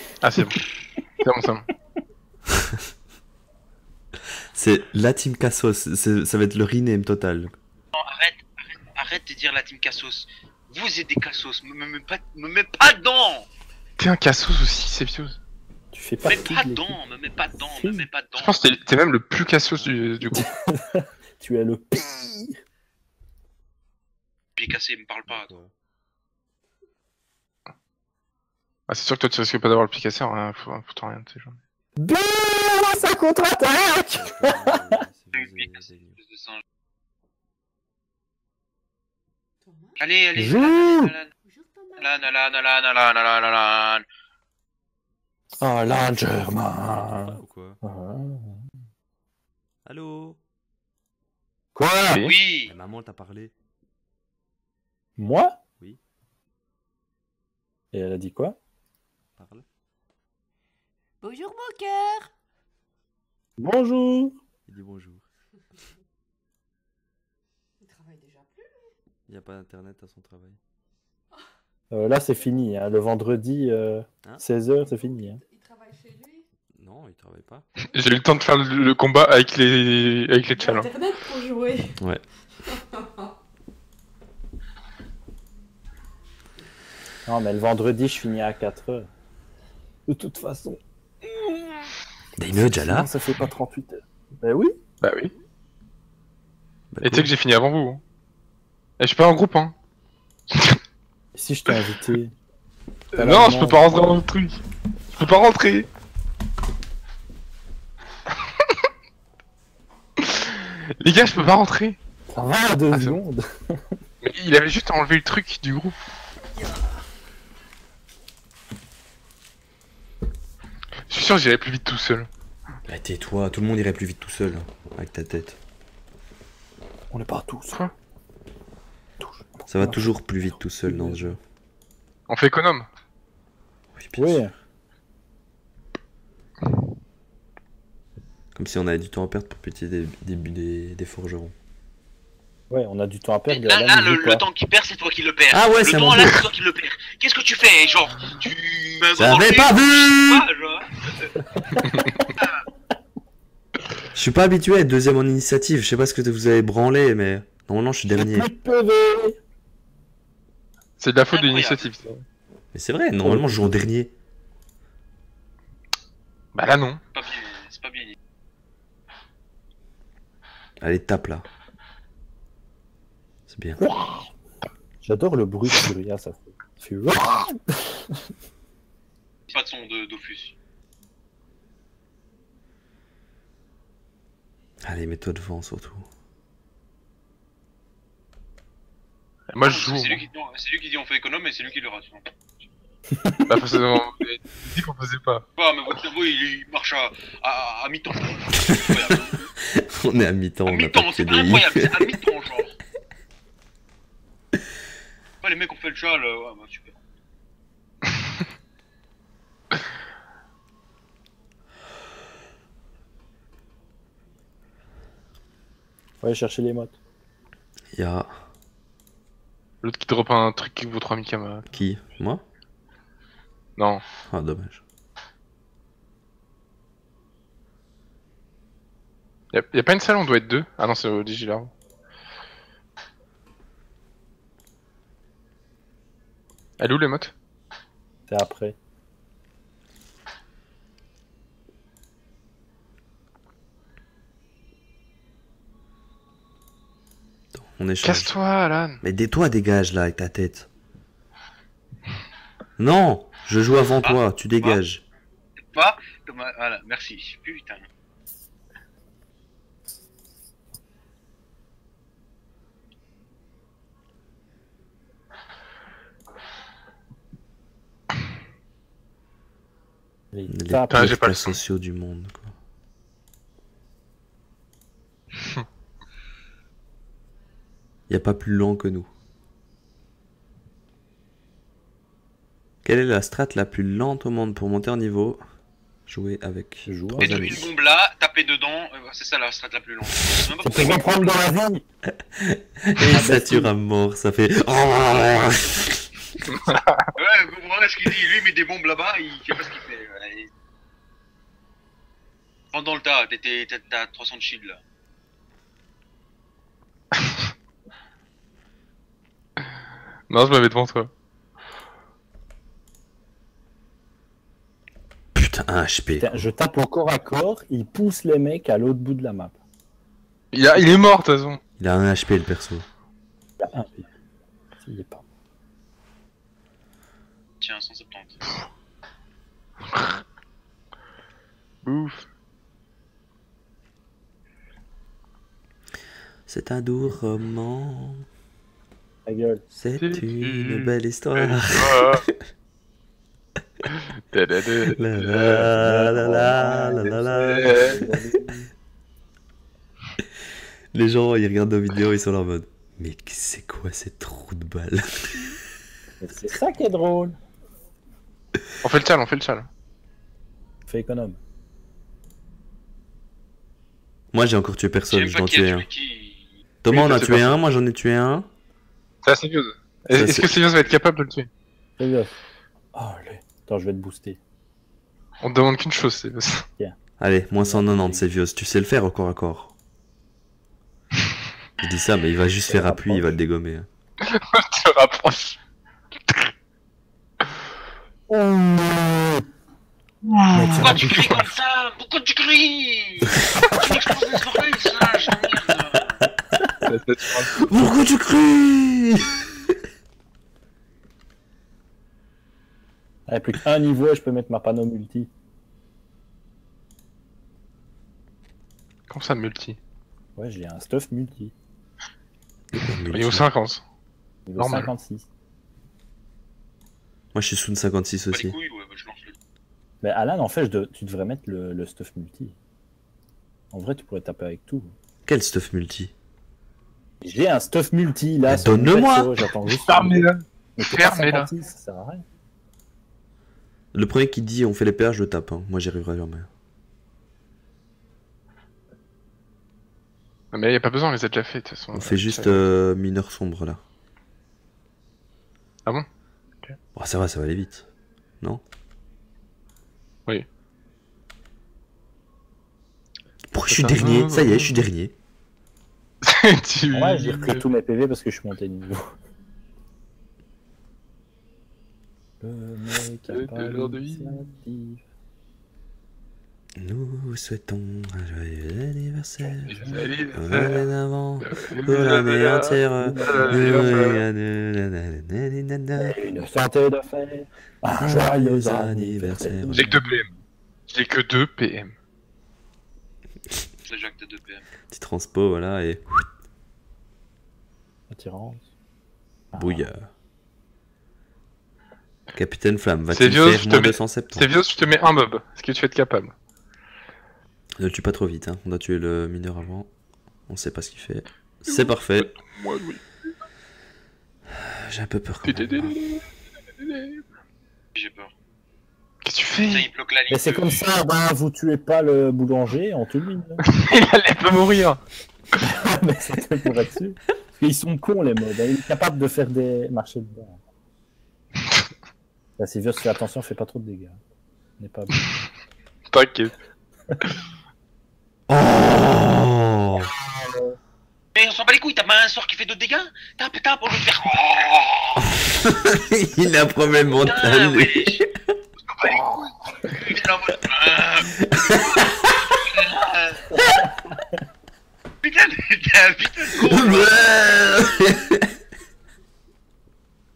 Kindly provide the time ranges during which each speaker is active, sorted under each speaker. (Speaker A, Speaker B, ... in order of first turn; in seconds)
Speaker A: 0.2-0.7, 1.2-1.7, 14.0-15.4, 18.4-20.5, 28.9-31.6, 77.9-80.9, 95.0-95.3, 97.0-98.0, 99.0-99.7, 100.5-100.8, 103.1-104.6, 105.1-105.9, 110.2-112.0, 112.9-113.2, 114.2-116.0, 121.1-122.3, 132.3-132.9, 151.8-152.1, 161.0-162.2, 166.5-167.0, 189.5-190.2, 193.5-195.4, 219.8-221.7, 223.8-224.0, 229.5-231.7, 236.8-237.3, 248.0-249.0, 270.9-271.6, 296.5-297.1, 310.3-311.1, 320.5-321.6, 329.9-330.2, 331.8-332.3, 340.0-342.3, 343.9-345.8, 347.2-348.1, 358.8-359.7, 366.9-367.6, 369.2-371.5, 375.4-376.7, 384.2-385.6, 390.2-390.9, 396.9-397.6, 409.1-409.8, 413.1-413.8, 414.6-414.9, 429.8-431.5, 440.5-442.7, 453.7-454.8, 456.2-457.6, 463.3-464.4, 469.6-474.2, 479.7-480.3, 480.9-481.9, 493.1-496.3, 501.7-503.0, 505.4-506.2, 506.8-507.2, 509.2-509.9, 513.6-515.0, 526.1-526.5
Speaker B: 2.5-2.8, 4.5-7.5, 25.3-25.7, 34.1-36.2, 46.9-47.8, 49.9-50.4, 52.7-53.5, 59.4-59.6, 64.7-65.3, 69.3-70.6, 76.8-77.7, 92.4-93.1, 96.9-97.3, 122.9-125.6, 129.7-131.4, 134.0-134.4, 138.6-141.5, 145.5-146.5, 149.2-150.5, 154.1-158.5, 162.7-164.1, 170.8-171.4, 173.5-173.8, 184.8-186.1, 198.7-202.2, 217.9-218.3, 221.7-222.4, 224.3-224.8, 247.6-248.3, 249.0-250.7, 252.8-255.0, 270.5-272.5, 278.1-279.1, 282.8-285.4, 286.1-287.7, 292.3-296.4, 315.4-316.4, 321.8-322.9, 336.5-338.3, 339.8-342.4, 344.9-348.2, 350.9-355.6, 364.3-365.9, 366.8-368.5, 370.1-370.5, 377.2-379.7, 381.8-383.9, 397.6-399.8, 412.7-413.5, 417.3-418.6, 425.3-426.1, 428.5-429.3, 433.9-436.5, 441.9-443.8, 447.0-447.9, 453.5-455.1, 466.8-469.8, 470.3-476.2, 478.0-479.9, 484.9-486.3, 489.6-490.1, 492.3-494.5, 497.8-499.9, 500.5-502.3, 504.5-506.0, 528.5-530.1, 535.2-538.5, 541.4-542.4, 546.6-548.5
Speaker C: 8.0-13.5, 16.2-18.7, 24.6-25.5, 35.4-36.6, 40.0-41.3, 42.0-44.0, 52.1-52.7, 143.5-151.7, 152.4-152.6, 161.3-161.9, 167.1-168.2, 179.5-180.6, 189.6-192.3, 195.6-199.5, 200.7-202.7, 205.4-207.0, 254.0-254.8, 255.6-257.9, 287.2-291.3, 297.2-300.5, 302.7-304.8, 327.6-328.4, 365.1-366.6, 390.8-396.2, 418.3-419.4, 483.9-484.7, 507.9-508.3, 509.7-510.8, 531.4-535.4, 537.1-538.2, 539.0-543.6, 545.2-548.0
Speaker D: 15.9-17.0, 17.8-18.1, 20.3-22.6, 32.0-35.0, 40.4-41.1, 45.6-48.6, 51.8-52.3, 55.2-55.6, 57.9-58.6, 63.6-64.4, 71.9-75.4, 87.3-89.1, 90.1-90.8, 92.4-94.8, 101.3-102.3, 103.2-103.8, 112.3-114.0, 127.1-127.8, 129.2-130.2, 130.8-131.4, 134.1-134.5, 142.7-144.5, 151.5-151.8, 158.1-159.4, 163.2-163.8, 173.8-174.3, 175.0-178.2, 193.1-193.5, 216.2-217.0, 238.3-238.8, 270.3-271.2, 286.9-287.6, 290.6-291.9, 293.1-293.7, 316.2-319.6, 323.6-324.1, 324.8-325.2, 339.3-339.6, 345.7-348.7, 356.2-357.4, 360.9-361.4, 372.0-372.4, 372.9-374.4, 377.6-378.3, 382.7-383.4, 388.3-389.4, 390.5-391.5, 403.3-405.3, 410.4-411.5, 414.5-415.3, 420.0-422.6, 423.7-424.9, 427.2-432.2, 456.9-459.1, 462.4-465.0, 469.7-470.0, 473.0-473.9, 476.0-480.4, 488.1-488.7, 489.5-489.9, 510.3-513.6, 515.6-520.6, 522.6-524.2, 524.8-525.2, 530.4-530.7, 543.8-544.2
Speaker E: 39.6-40.0, 41.4-42.2, 61.2-62.3, 67.8-68.7, 75.4-76.5, 80.6-82.0, 82.7-83.3